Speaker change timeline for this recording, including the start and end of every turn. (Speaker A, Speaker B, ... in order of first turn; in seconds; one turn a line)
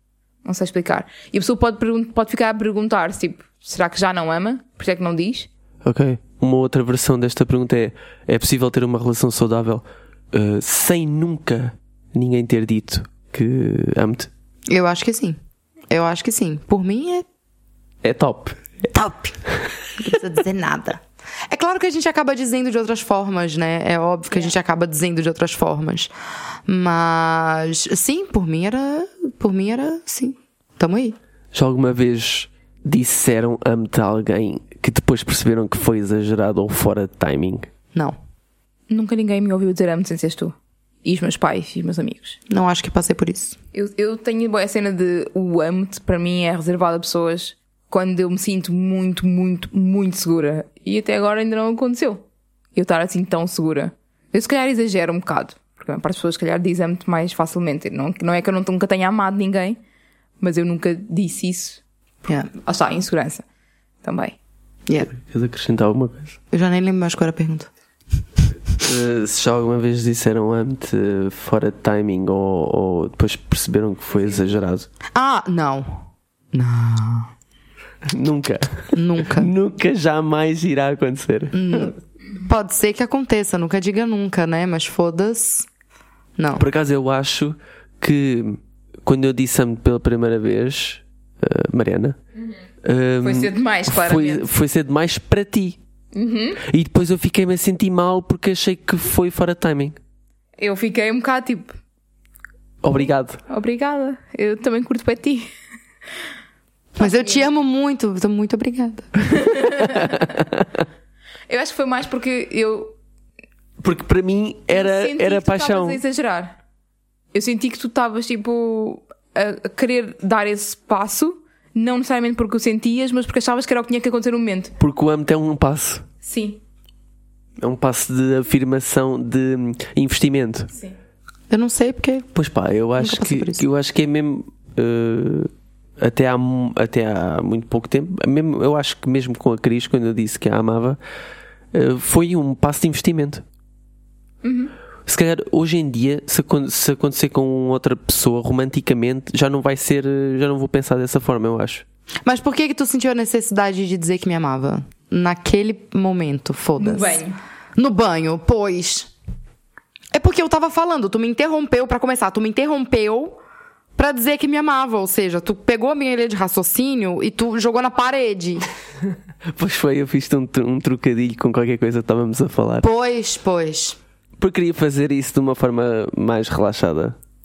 Speaker A: 0.5-5.5
Speaker B: 5.8-14.3
Speaker C: 14.7-15.4
Speaker C: 15.9-17.2
Speaker B: 18.0-18.6
Speaker C: 18.9-19.4
Speaker C: 20.0-26.1
Speaker C: 26.7-31.2
Speaker B: 31.5-37.7
Speaker A: 38.9-42.4
Speaker C: 42.5-43.6
Speaker A: 43.7-52.2
Speaker A: 52.8-59.8
Speaker A: 60.4-61.8
Speaker A: 62.5-63.5
Speaker A: 64.0-64.4
Speaker B: 65.1-66.4
Speaker C: 66.5-67.7
Speaker B: 68.8-74.9
Speaker C: 75.1-77.3
Speaker B: 78.1-81.9
Speaker C: 79.0-79.5
Speaker C: 81.5-85.7
Speaker C: 86.4-86.7
Speaker B: 86.6-92.2
Speaker B: 92.8-95.8
Speaker A: 93.2-94.5
Speaker A: 96.1-96.6
Speaker B: 96.6-100.0
Speaker A: 100.6-101.8
Speaker B: 102.8-103.4
Speaker A: 103.5-105.5
Speaker C: 107.0-109.1
Speaker A: 107.0-107.5
Speaker A: 109.3-110.3
Speaker B: 109.9-110.7
Speaker A: 111.5-112.9
Speaker B: 113.8-116.0
Speaker A: 114.7-116.6
Speaker A: 117.3-124.7
Speaker B: 124.8-126.0
Speaker A: 126.2-126.6
Speaker B: 127.6-130.7
Speaker C: 131.5-132.3
Speaker B: 132.3-141.0
Speaker C: 133.0-133.7
Speaker B: 141.7-143.4
Speaker A: 144.4-144.7
Speaker B: 145.1-151.8
Speaker C: 152.2-157.2
Speaker A: 156.8-157.4
Speaker C: 157.8-159.1
Speaker C: 160.1-163.4
Speaker C: 164.0-168.7
Speaker B: 169.6-172.9
Speaker C: 172.8-174.0
Speaker B: 174.4-177.2